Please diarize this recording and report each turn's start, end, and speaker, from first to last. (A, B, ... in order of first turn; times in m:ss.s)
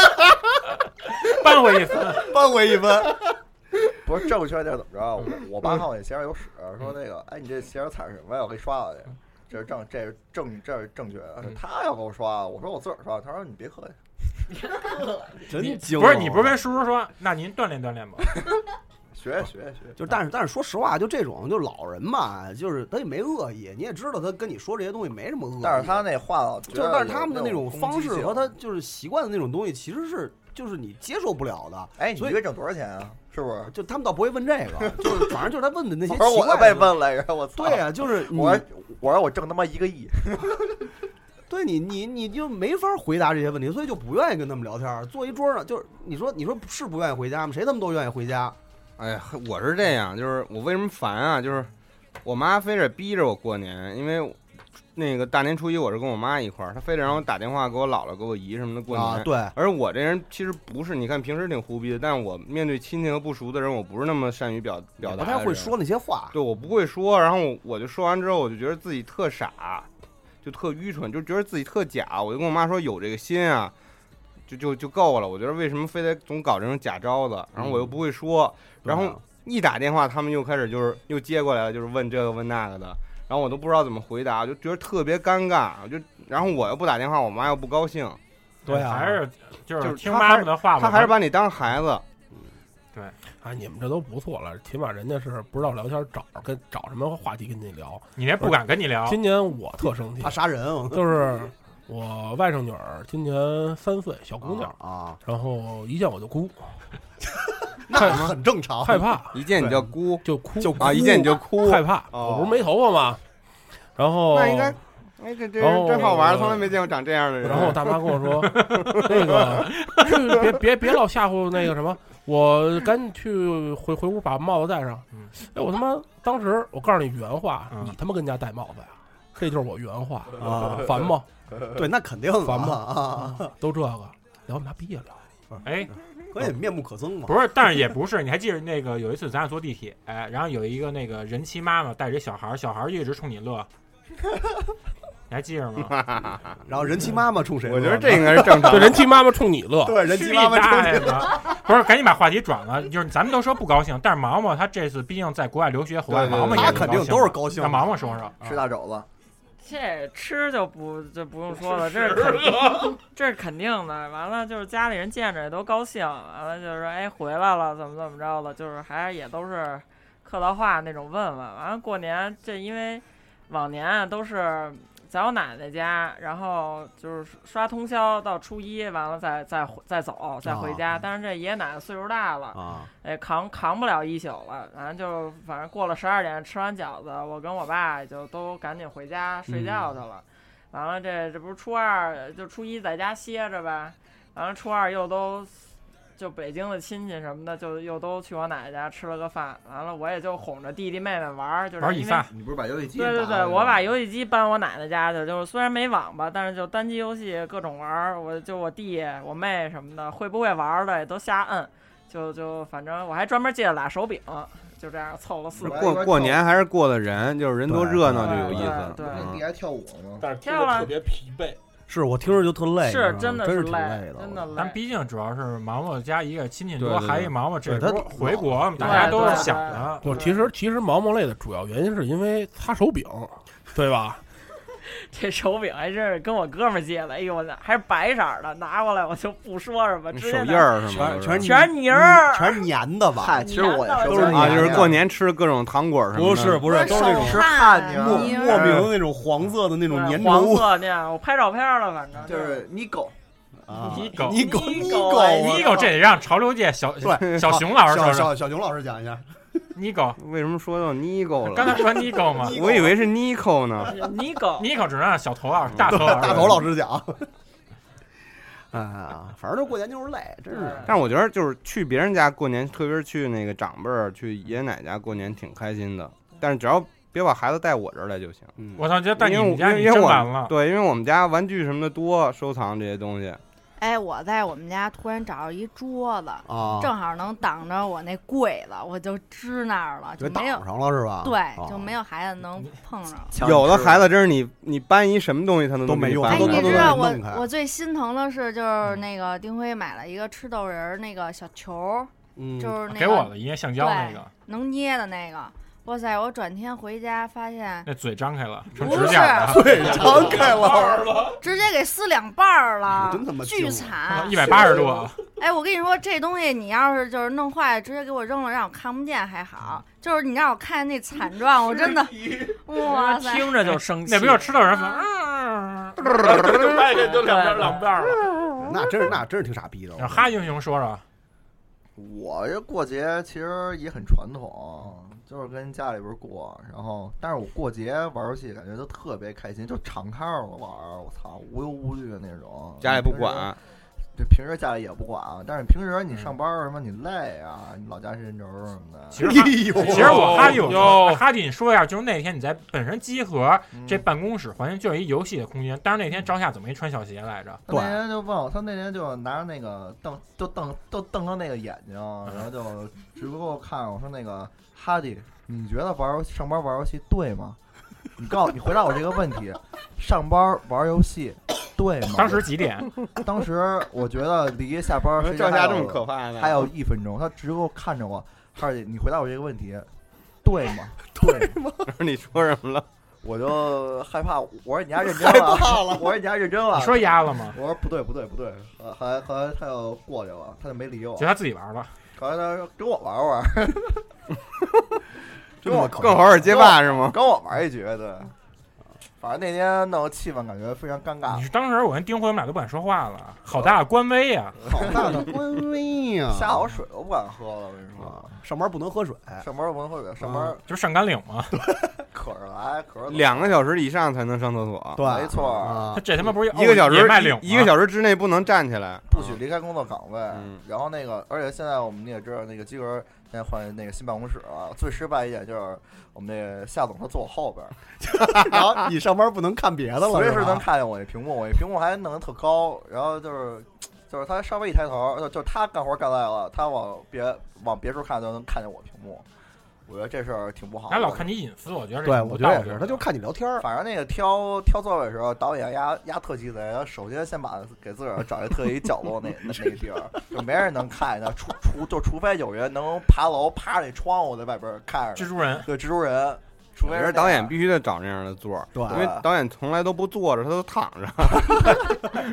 0:01.2-0:02.3 A
0:02.1-0:03.2 B
0:04.0-0:14.0 B
0:15.5-0:16.6 C
0:15.6-0:18.3 A
0:19.1-0:20.0 B
0:20.0-0:26.0 C
0:25.6-0:28.5 B
0:26.7-0:32.4 C
0:32.0-0:33.7 B
0:33.7-0:37.0 C
0:35.0-0:35.3 B
0:36.1-0:40.8 B
0:37.6-0:38.6 C
0:41.5-0:48.6 C
0:49.0-0:51.7 D
0:52.2-0:54.4 D
0:55.0-1:05.8 D
0:58.9-0:59.5 C
1:05.0-1:06.4 C
1:06.3-1:09.9 D
1:10.4-1:13.7 D
1:14.5-1:28.2 D
1:18.8-1:19.2 C
1:28.7-1:29.2 C
1:28.7-1:31.2 A
1:29.8-1:32.0 D
1:33.4-1:40.4 E
1:38.2-1:39.2 A
1:40.2-1:41.0 C
1:40.9-1:46.8 E
1:44.4-1:45.2 C
1:47.8-1:49.9 C
1:47.9-1:48.3 E
1:48.0-1:48.3 D
1:48.8-1:49.4 E
1:49.3-1:50.3 D
1:50.2-1:53.2 E
1:50.6-1:51.2 C
1:50.8-1:52.5 D
1:54.0-1:54.8 E
1:54.3-1:58.3 D
1:55.6-1:56.7 E
1:57.4-2:11.3 E
1:58.5-1:59.0 A
1:58.8-1:59.6 D
1:59.7-2:00.1 A
2:10.4-2:11.0 C
2:11.8-2:13.5 C
2:12.4-2:15.2 E
2:15.6-2:15.9 A
2:16.3-2:17.4 C
2:17.3-2:23.7 A
2:25.3-2:26.0 A
2:25.8-2:26.5 D
2:26.7-2:28.9 C
2:27.6-2:29.1 D
2:28.7-2:30.0 E
2:29.8-2:31.3 C
2:30.1-2:38.4 A
2:36.1-2:37.0 D
2:36.1-2:38.6 C
2:38.4-2:39.1 B
2:39.6-3:15.6 F
3:00.4-3:00.8 C
3:02.5-3:02.9 C
3:09.5-3:09.9 C
3:16.2-3:22.3 F
3:21.8-3:22.3 A
3:22.3-3:23.9 B
3:22.9-3:36.2 F
3:35.6-3:36.4 B
3:35.6-3:39.4 D
3:37.7-3:38.6 C
3:38.1-3:39.3 F
3:38.6-3:40.3 B
3:40.3-3:41.6 E
3:40.4-3:41.0 F
3:41.9-3:44.5 C
3:42.8-3:44.8 F
3:44.6-3:50.1 A
3:46.8-3:47.3 D
3:47.7-3:49.8 C
3:48.8-3:50.5 F
3:50.0-3:54.2 E
3:55.1-4:02.7 F
4:00.1-4:01.5 D
4:00.9-4:03.5 C
4:03.2-4:04.9 B
4:03.4-4:04.6 F
4:04.0-4:05.0 C
4:04.3-4:06.7 D
4:06.1-4:10.7 C
4:06.7-4:08.6 G
4:06.7-4:08.8 B
4:09.9-4:12.6 F
4:12.2-4:13.2 B
4:13.7-4:15.9 C
4:13.8-4:15.9 F
4:14.0-4:14.5 A
4:15.4-4:18.3 A
4:17.0-4:19.2 C
4:19.8-4:20.2 A
4:20.2-4:24.0 D
4:21.5-4:22.6 A
4:22.4-4:23.0 C
4:23.8-4:24.7 F
4:24.6-4:26.7 A
4:25.7-4:26.2 D
4:25.8-4:27.3 C
4:28.7-4:31.0 C
4:30.5-4:31.0 F
4:30.8-4:38.5 D
4:38.6-4:38.8 C
4:38.8-4:40.5 A
4:39.2-4:43.4 D
4:43.8-4:50.7 G
4:46.5-4:46.9 C
4:50.2-4:52.0 C
4:51.2-4:53.4 G
4:53.3-4:54.1 B
4:53.4-4:57.0 D
4:55.9-4:57.5 C
4:56.3-5:07.9 G
5:02.4-5:02.8 C
5:02.9-5:04.3 A
5:07.8-5:09.9 A
5:08.8-5:10.1 G
5:09.4-5:11.1 C
5:11.2-5:14.6 G
5:13.0-5:15.1 C
5:14.1-5:15.2 A
5:15.4-5:23.5 G
5:22.8-5:24.6 F
5:23.6-5:26.6 A
5:24.7-5:25.0 G
5:26.6-5:28.2 E
5:26.9-5:28.1 F
5:28.6-5:30.3 C
5:30.0-5:31.0 A
5:32.0-5:43.6 B
5:42.8-5:43.6 D
5:44.2-5:49.4 B
5:49.1-5:57.6 A
5:49.2-5:50.8 C
5:49.8-5:51.2 E
5:53.7-5:54.0 B
5:57.7-6:07.6 B
5:57.7-5:58.0 C
6:08.2-6:12.5 B
6:12.1-6:12.9 A
6:13.2-6:19.9 B
6:15.2-6:16.7 D
6:20.4-6:21.6 B
6:21.1-6:21.8 C
6:21.9-6:22.9 D
6:23.2-6:31.3 B
6:25.2-6:26.1 C
6:26.7-6:27.6 A
6:31.2-6:31.9 A
6:32.2-6:34.0 B
6:35.6-6:36.4 C
6:35.6-6:38.3 B
6:35.7-6:37.2 D
6:39.2-6:41.4 B
6:41.3-6:44.6 A
6:44.6-6:45.2 B
6:44.7-6:46.6 C
6:46.3-6:48.3 B
6:48.0-6:49.4 C
6:49.4-6:50.6 B
6:50.2-6:50.5 C
6:50.7-6:51.6 A
6:52.1-6:53.6 B
6:53.1-6:55.0 D
6:55.0-6:56.0 C
6:55.0-6:55.9 B
6:56.0-6:57.7 A
6:56.5-6:59.4 D
6:59.1-7:07.8 B
7:00.3-7:00.6 D
7:08.1-7:10.7 C
7:10.0-7:19.2 B
7:19.9-7:21.3 B
7:20.9-7:23.0 A
7:22.0-7:23.6 C
7:23.6-7:37.5 B
7:35.2-7:35.7 A
7:36.9-7:42.2 D
7:38.7-7:39.1 C
7:38.9-7:39.3 B